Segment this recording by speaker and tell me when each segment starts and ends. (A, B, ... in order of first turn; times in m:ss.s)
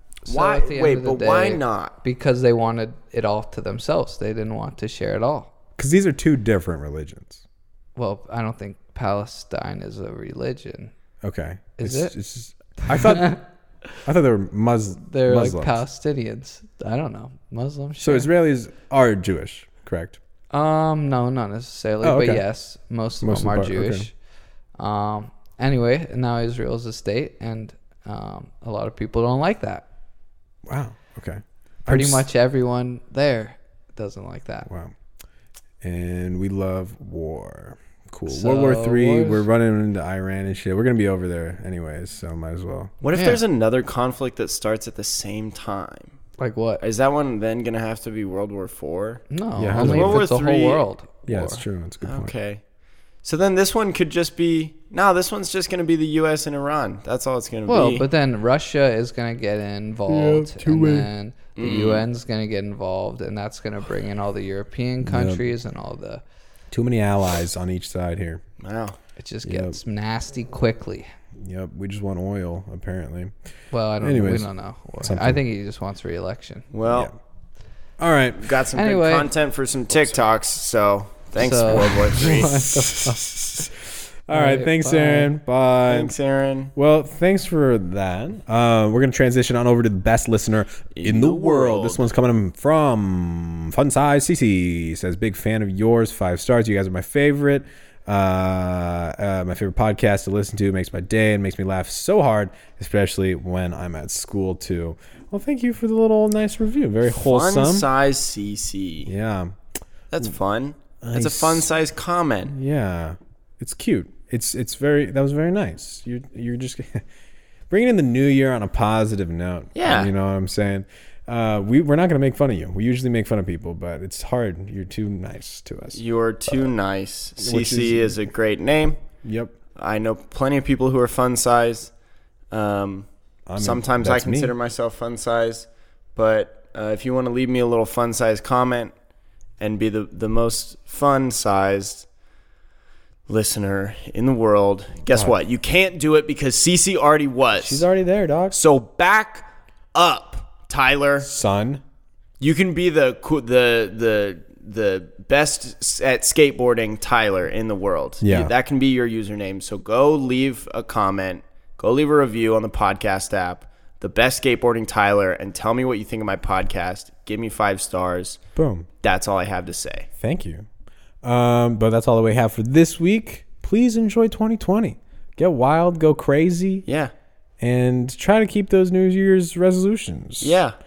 0:00.2-0:05.5 A
0:00.3-0:01.9 B
0:05.8-0:07.4 C
0:08.0-0:10.9 A
0:11.2-0:13.4 C
0:11.8-0:12.1 A
0:12.8-0:13.4 A
0:14.0-0:15.8 C
0:15.0-0:18.3 A
0:18.0-0:20.2 C
0:20.5-0:24.1 A
0:22.0-0:22.4 C
0:23.2-0:24.1 C
0:24.8-0:29.8 A
0:30.7-0:32.3 C
0:31.9-0:34.7 A
0:34.6-0:34.9 C
0:35.8-0:42.9 C
0:38.3-0:39.4 A
0:43.0-0:46.2 B
0:43.1-0:43.4 A
0:46.4-0:46.8 A
0:46.8-0:49.2 B
0:49.3-0:51.6 A
0:49.6-0:50.3 C
0:49.8-0:50.8 B
0:51.3-0:52.3 C
0:52.0-0:52.6 B
0:53.2-0:58.0 B
0:57.7-1:06.2 A
1:00.1-1:01.1 C
1:01.6-1:02.0 B
1:05.0-1:05.4 C
1:06.7-1:08.4 C
1:08.6-1:09.0 B
1:09.2-1:11.0 A
1:09.4-1:09.8 C
1:11.4-1:13.3 C
1:13.7-1:16.7 A
1:14.0-1:15.4 C
1:16.7-1:17.1 B
1:16.8-1:17.2 C
1:18.0-1:18.6 C
1:18.4-1:22.6 B
1:18.7-1:19.3 A
1:21.4-1:23.7 A
1:21.9-1:26.1 C
1:24.3-1:25.3 A
1:25.9-1:26.7 B
1:26.7-1:47.9 C
1:30.9-1:32.1 B
1:47.1-1:49.1 B
1:49.0-1:49.6 C
1:50.1-1:52.5 B
1:51.0-1:51.7 C
1:52.5-1:57.0 C
1:57.7-2:06.6 C
1:59.7-2:00.1 B
2:05.9-2:09.0 B
2:07.4-2:08.2 C
2:09.2-2:09.5 C
2:09.8-2:11.9 B
2:12.5-2:18.9 B
2:13.5-2:14.5 C
2:19.6-2:22.1 B
2:23.3-2:27.8 B
2:27.5-2:28.6 C
2:28.5-2:31.3 B
2:31.2-2:31.8 C
2:32.4-2:48.4 B
2:38.2-2:38.5 C
2:48.6-2:48.9 C
2:49.0-2:50.1 B
2:50.2-2:50.7 C
2:51.2-2:56.8 C
2:56.8-2:57.1 B
2:57.6-3:00.6 C
3:00.4-3:00.8 B